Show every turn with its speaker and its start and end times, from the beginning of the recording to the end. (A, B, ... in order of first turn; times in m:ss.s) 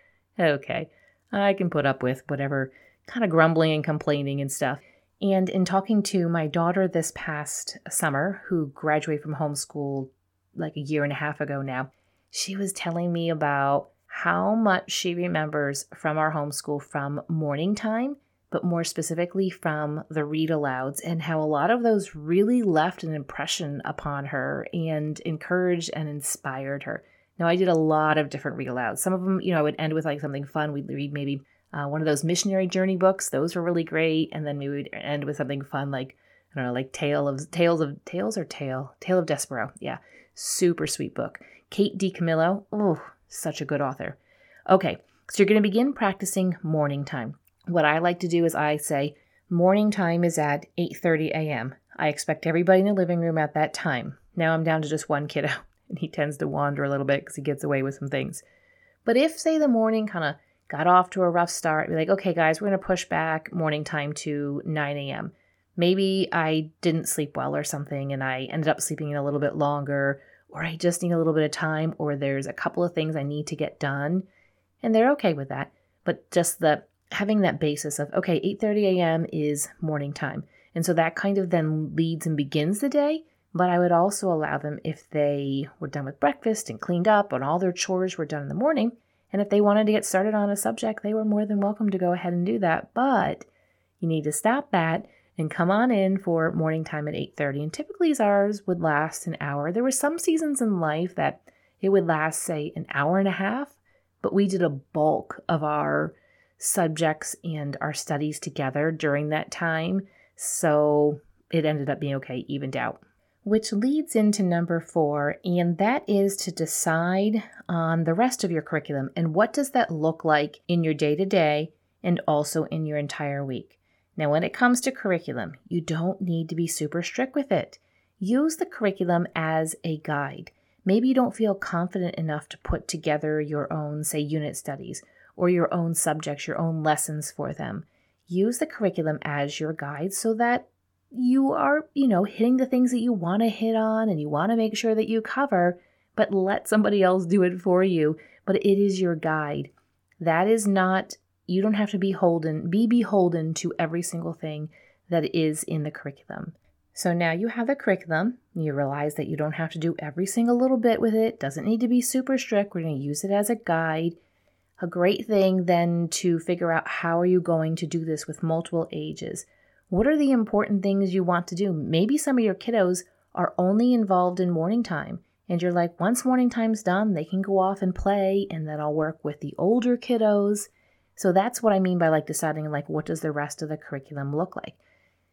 0:00.4-0:58.4 A
0:59.0-1:14.2 A
1:14.8-1:33.4 A
1:34.0-2:44.2 A
2:44.8-3:04.8 A